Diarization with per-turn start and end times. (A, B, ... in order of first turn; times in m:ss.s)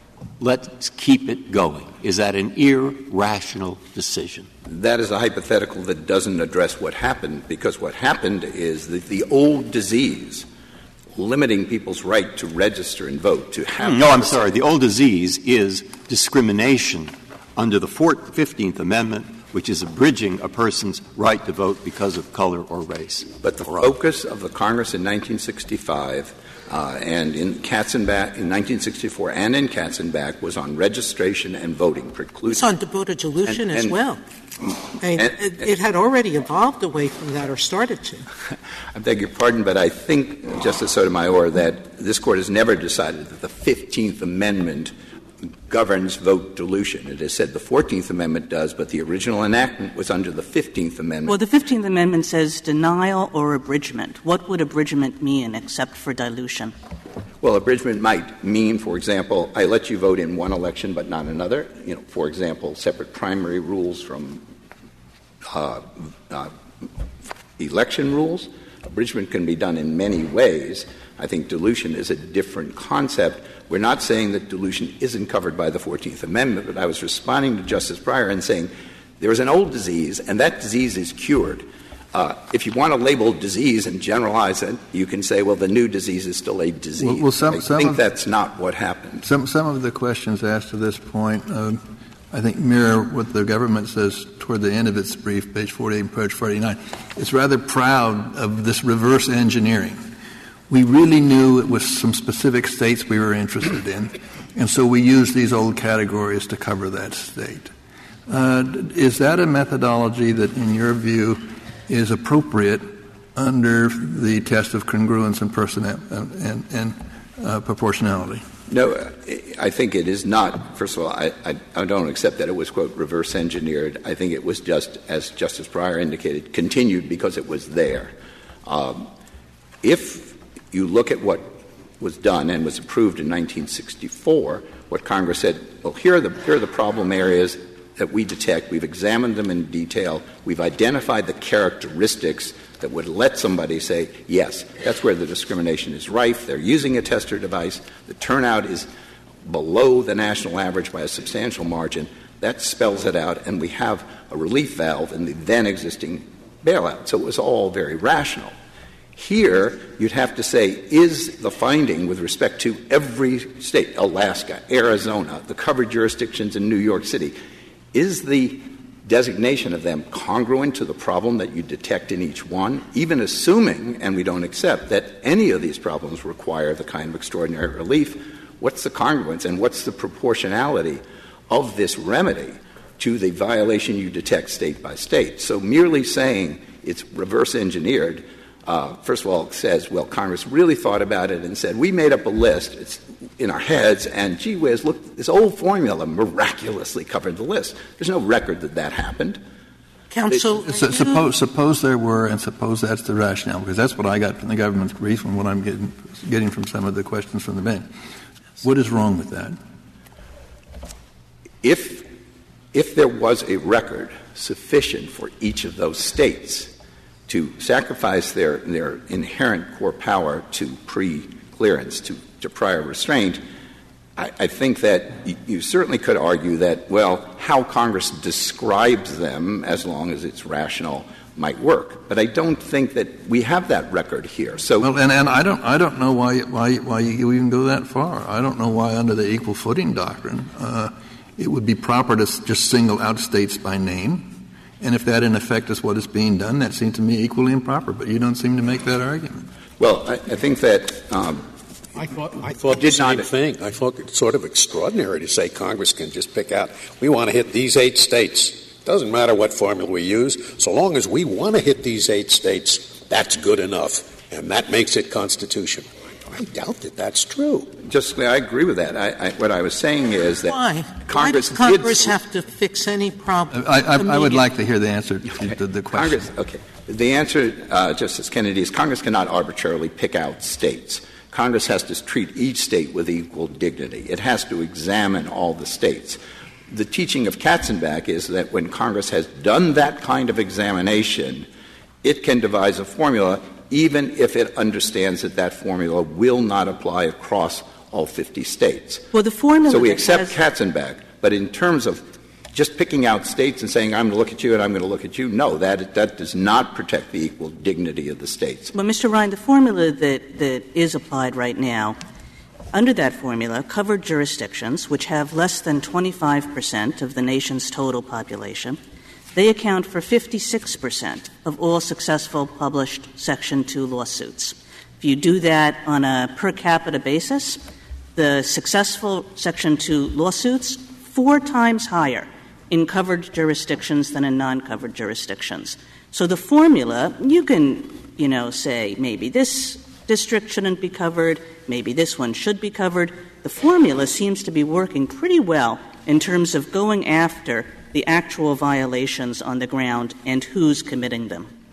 0:00.4-0:04.5 A
0:04.7-0:10.5 B
0:11.2-0:14.4 B
0:13.8-0:23.8 A
0:23.4-0:32.7 B
0:32.5-0:34.2 C
0:33.5-0:33.9 B
0:35.0-0:38.3 C
0:38.9-0:44.9 B
0:45.7-0:51.4 B
0:51.3-0:56.7 D
0:57.4-1:04.4 B
1:05.5-1:06.8 B
1:07.6-1:29.2 B
1:27.0-1:28.0 E
1:29.2-1:40.0 E
1:40.7-1:47.7 E
1:48.3-1:58.5 E
1:58.7-2:08.1 B
2:08.6-2:09.1 B
2:09.8-2:28.9 B
2:29.4-2:38.5 B
2:39.2-2:47.4 B
2:47.9-3:19.4 B
3:20.1-3:21.3 C
3:20.6-3:27.9 E
3:28.6-3:29.6 E
3:31.6-3:32.1 B
3:32.7-3:36.7 B
3:37.3-3:43.4 B
3:44.2-3:54.9 B
3:54.8-4:09.5 E
4:09.8-4:11.4 B
4:12.0-4:27.8 F
4:12.7-4:13.3 B
4:27.8-4:32.2 B
4:30.5-4:34.4 C
4:33.5-4:36.3 E
4:35.4-4:51.5 B
4:52.0-4:59.1 B
4:59.1-5:00.4 D
4:59.7-5:08.7 B
5:08.7-5:12.0 D
5:12.7-5:18.8 D
5:19.3-5:27.6 D
5:28.2-5:51.5 D